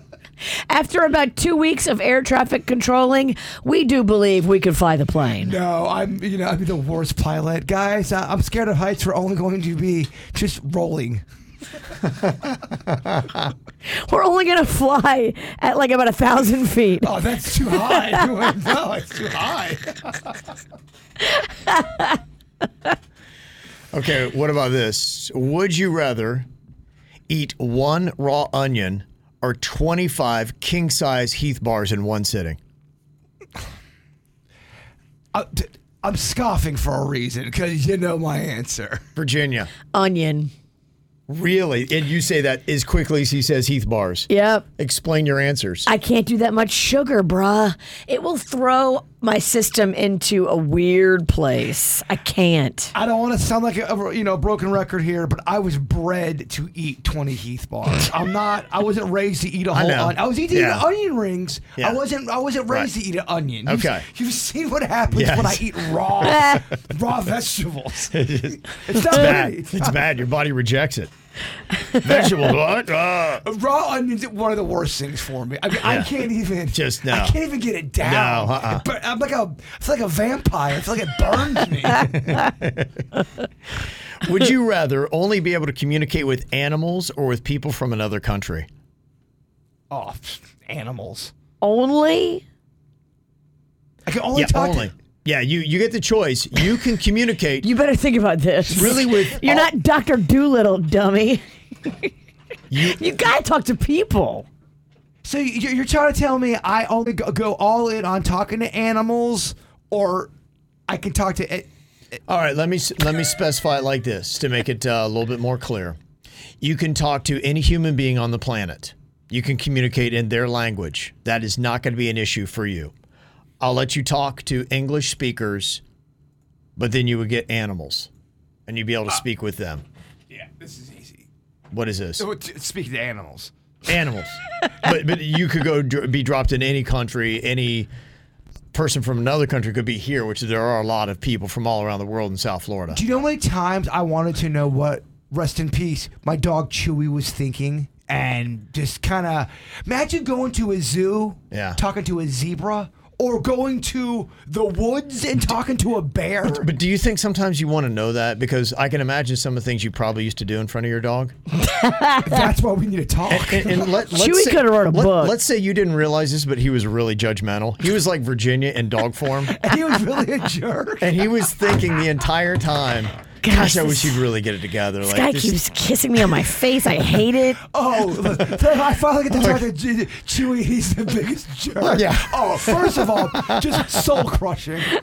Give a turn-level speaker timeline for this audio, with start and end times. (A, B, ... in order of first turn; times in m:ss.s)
0:00.7-0:05.5 A
0:05.4-0:11.2 B
0:13.9-0:17.1 A
0:17.0-0:20.1 B
0:21.7-0:22.2 A
0:23.9-0:26.5 C
0:27.3-0:32.6 C
0:35.3-0:39.0 B
0:39.2-0:39.7 C
0:39.9-0:40.5 A
0:41.3-0:45.9 C
0:44.3-0:44.6 A
0:45.9-0:52.9 A
0:52.9-1:10.0 B
0:59.7-1:00.8 C
1:03.6-1:04.1 C
1:05.1-1:05.7 C
1:08.1-1:11.1 C
1:12.0-1:13.4 C
1:13.4-1:22.4 B
1:15.8-1:16.1 C
1:16.7-1:17.4 C
1:18.0-1:18.8 C
1:22.3-1:22.9 C
1:24.2-1:28.7 C
1:29.9-1:31.3 B
1:31.6-1:32.4 A
1:34.1-1:34.9 B
1:34.3-1:37.7 C
1:37.6-1:41.4 A
1:38.8-1:39.7 C
1:38.8-1:39.2 B
1:42.7-1:43.0 C
1:42.8-1:44.5 A
1:45.2-1:50.3 B
1:50.9-1:52.2 B
1:52.3-1:56.0 C
1:56.6-2:02.9 C
2:03.6-2:05.8 C
2:06.8-2:08.1 C
2:08.7-2:09.8 C
2:10.3-2:11.3 B
2:11.7-2:12.3 C
2:12.2-2:13.5 B
2:13.9-2:17.9 C
2:18.7-2:23.0 C
2:22.9-2:36.7 B
2:31.5-2:31.8 C
2:36.4-2:41.4 C
2:41.6-2:42.5 A
2:42.2-2:43.9 B
2:43.3-2:49.5 C
2:44.1-2:45.4 A
2:49.5-2:51.1 B
2:51.0-2:55.6 C
2:53.4-2:54.2 A
2:55.0-2:57.6 A
2:57.7-3:04.9 B
2:59.3-2:59.6 C
3:01.8-3:04.0 C